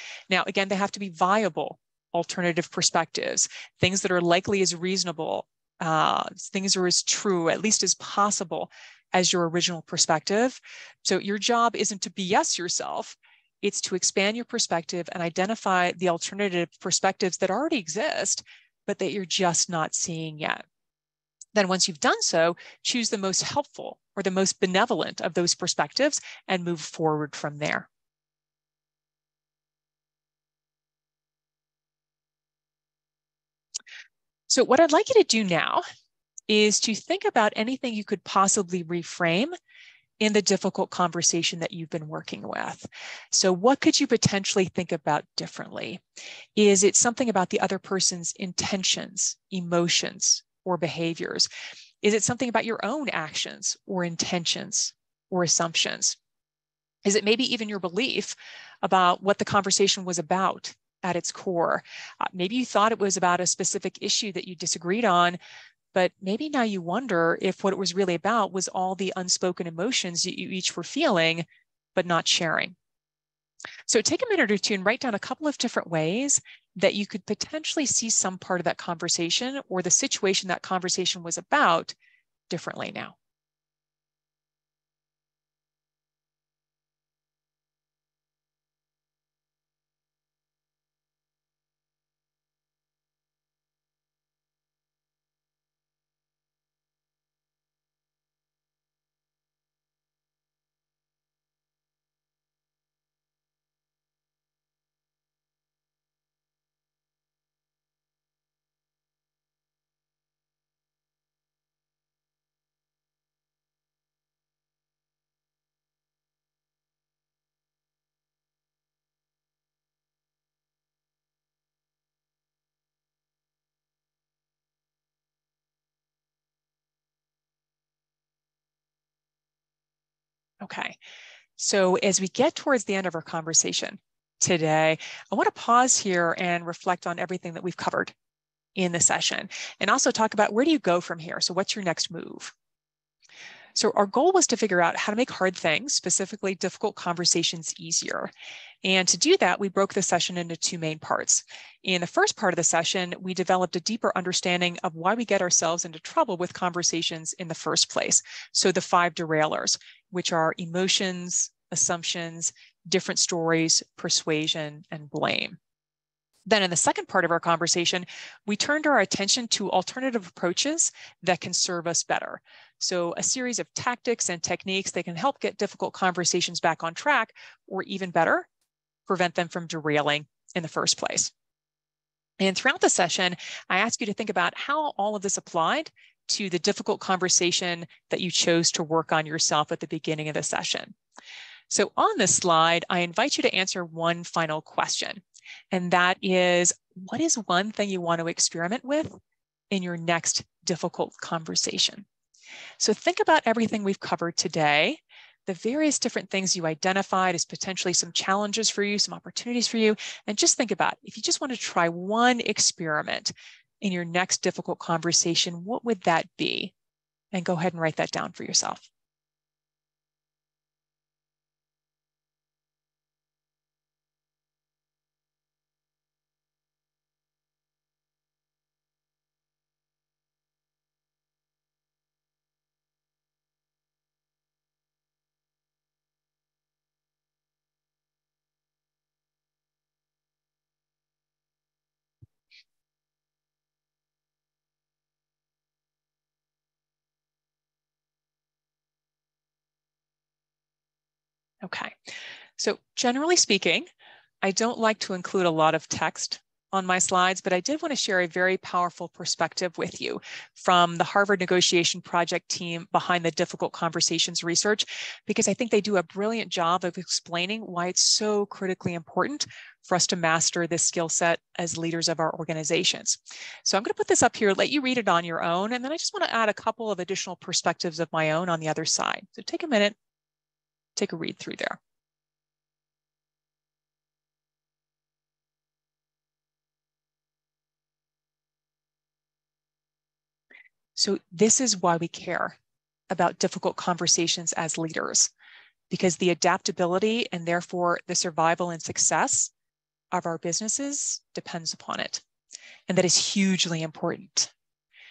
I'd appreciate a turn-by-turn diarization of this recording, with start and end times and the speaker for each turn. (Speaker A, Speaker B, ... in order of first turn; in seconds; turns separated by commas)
Speaker A: 0.3-20.6, Speaker A: 21.5-27.9, Speaker A: 34.5-35.8, Speaker A: 36.5-39.5, Speaker A: 40.2-46.0, Speaker A: 46.5-51.5, Speaker A: 52.0-56.2, Speaker A: 57.0-65.4, Speaker A: 65.9-72.8, Speaker A: 73.9-81.9, Speaker A: 82.5-83.2, Speaker A: 130.6-131.0, Speaker A: 131.6-138.1, Speaker A: 138.8-142.5, Speaker A: 143.7-148.3, Speaker A: 148.8-165.6, Speaker A: 166.4-178.5, Speaker A: 179.1-181.3, Speaker A: 182.4-190.9, Speaker A: 191.7-199.1, Speaker A: 199.7-202.1, Speaker A: 202.8-216.7, Speaker A: 217.3-218.8, Speaker A: 251.6-253.9, Speaker A: 254.4-280.0, Speaker A: 280.9-281.8, Speaker A: 290.9-292.6, Speaker A: 293.1-295.3, Speaker A: 295.9-299.5, Speaker A: 300.1-302.2, Speaker A: 302.9-304.5